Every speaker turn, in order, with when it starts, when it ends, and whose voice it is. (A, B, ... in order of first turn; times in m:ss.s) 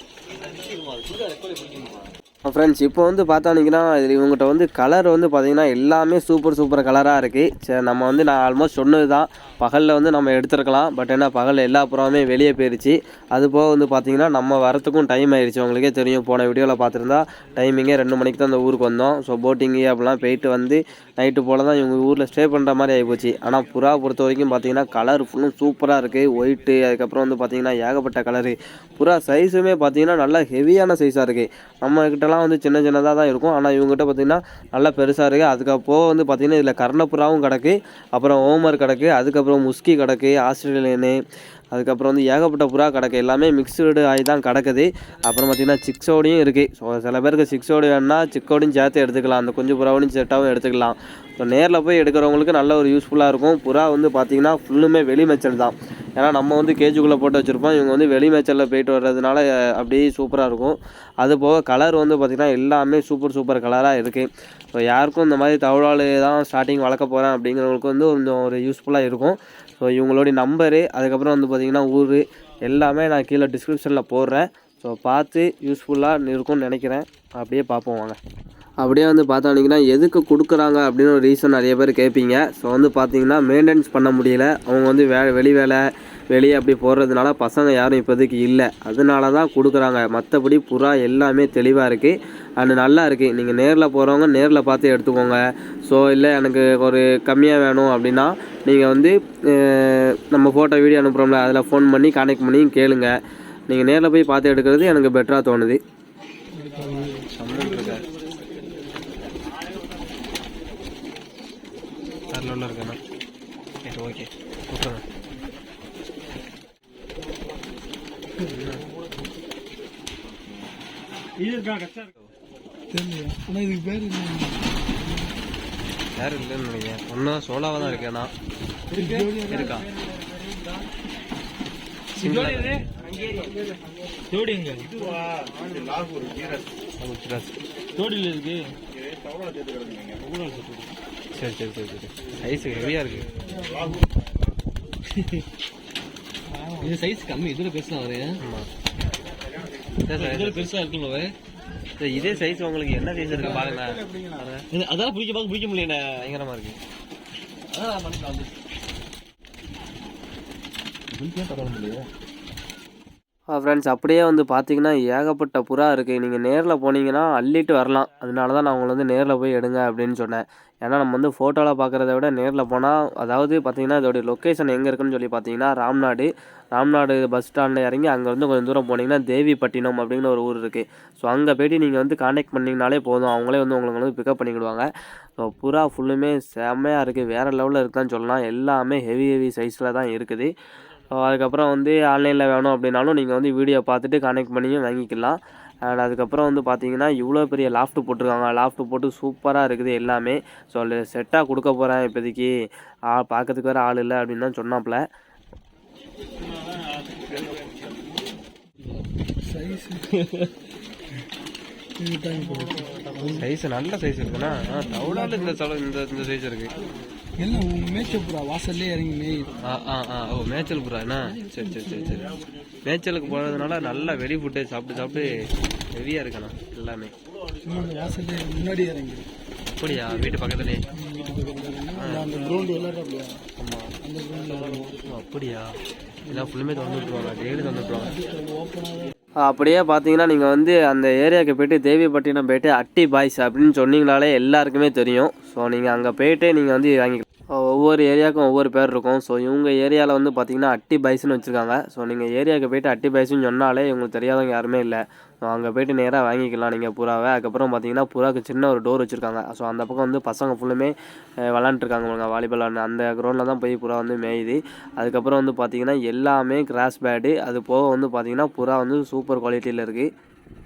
0:00.3-0:02.2 A
0:02.4-0:41.2 B
0:41.7-1:18.2 B
1:18.8-1:43.1 B
1:43.7-1:45.8 B
1:46.5-1:47.3 C
1:47.3-1:48.0 B
1:52.3-1:53.0 B
1:53.8-1:55.0 B
1:58.4-1:58.7 C
2:00.2-2:00.7 A
2:01.4-2:02.0 A
2:02.9-2:05.3 C
2:06.2-2:08.3 B
2:08.9-2:09.4 A
2:08.9-2:09.8 C
2:09.5-2:09.9 B
2:10.3-2:10.8 A
2:12.2-2:12.9 B
2:12.2-2:13.5 A
2:14.3-2:16.4 A
2:17.0-2:17.6 B
2:17.9-2:18.7 A
2:20.0-2:20.9 A
2:21.3-2:23.3 B
2:23.4-2:24.1 C
2:25.1-2:25.4 A
2:26.5-2:26.9 C
2:26.8-2:28.4 A
2:28.4-2:28.7 B
2:30.0-2:30.7 B
2:30.1-2:31.3 A
2:32.0-2:34.6 B
2:33.3-2:33.7 A
2:33.8-2:34.2 C
2:34.7-2:36.2 A
2:36.2-2:36.8 B
2:37.7-2:38.6 A
2:41.1-2:42.1 A
2:43.5-3:04.9 B
3:05.4-3:10.5 B
3:11.1-3:22.5 B
3:23.1-3:25.0 B
3:27.4-3:27.9 A
3:28.8-3:29.1 A
3:29.4-3:30.1 C
3:30.2-3:30.5 A
3:32.0-3:33.5 C
3:33.4-3:36.7 B
3:34.3-3:35.6 C
3:37.4-3:39.6 C
3:39.6-3:45.3 B
3:41.2-3:42.4 C
3:43.7-3:44.2 C
3:45.0-3:45.6 C
3:46.0-3:47.1 B
3:47.6-3:49.3 C
3:49.7-3:50.8 B
3:49.9-3:50.4 C
3:50.9-3:53.4 C
3:52.0-3:52.3 B
3:53.6-3:53.9 B
3:54.0-3:55.1 C
3:55.0-3:55.7 B
3:56.2-3:59.1 C
3:56.3-3:58.1 B
3:59.4-4:20.9 B
4:21.5-4:30.1 B